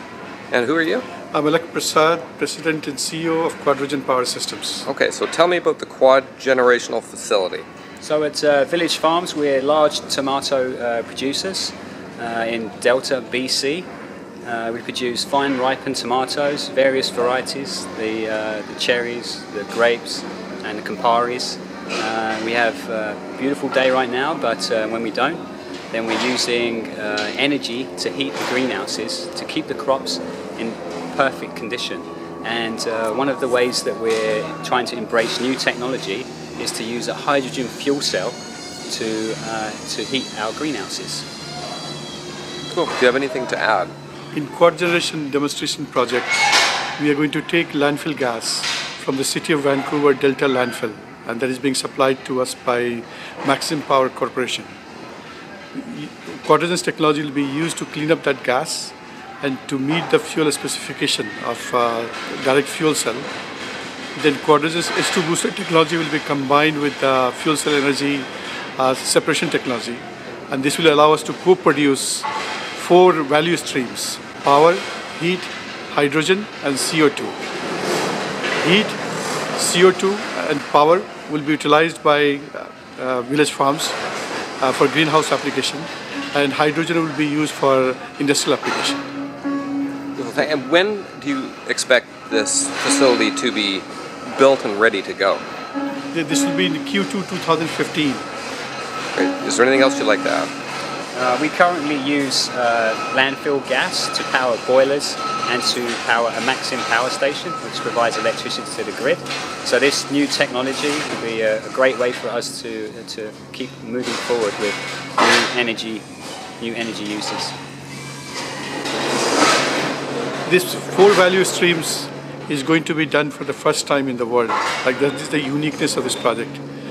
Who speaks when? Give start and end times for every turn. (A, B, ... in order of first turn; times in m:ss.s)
0:00.5-0:01.1 A
0:01.3-0:04.9 B
0:04.9-0:07.7 A
0:08.0-0:13.9 C
0:14.4-0:41.3 C
0:42.7-0:43.9 A
0:44.3-0:46.4 B
0:47.0-0:54.8 B
0:55.8-1:03.3 B
1:04.2-1:17.4 B
1:18.6-1:19.0 B
1:19.6-1:24.0 B
1:24.6-1:29.0 B
1:30.2-1:35.4 A
1:36.1-1:38.2 B
1:39.2-1:40.5 A
1:41.1-1:56.0 C
1:56.6-1:57.6 C
2:00.5-2:06.6 B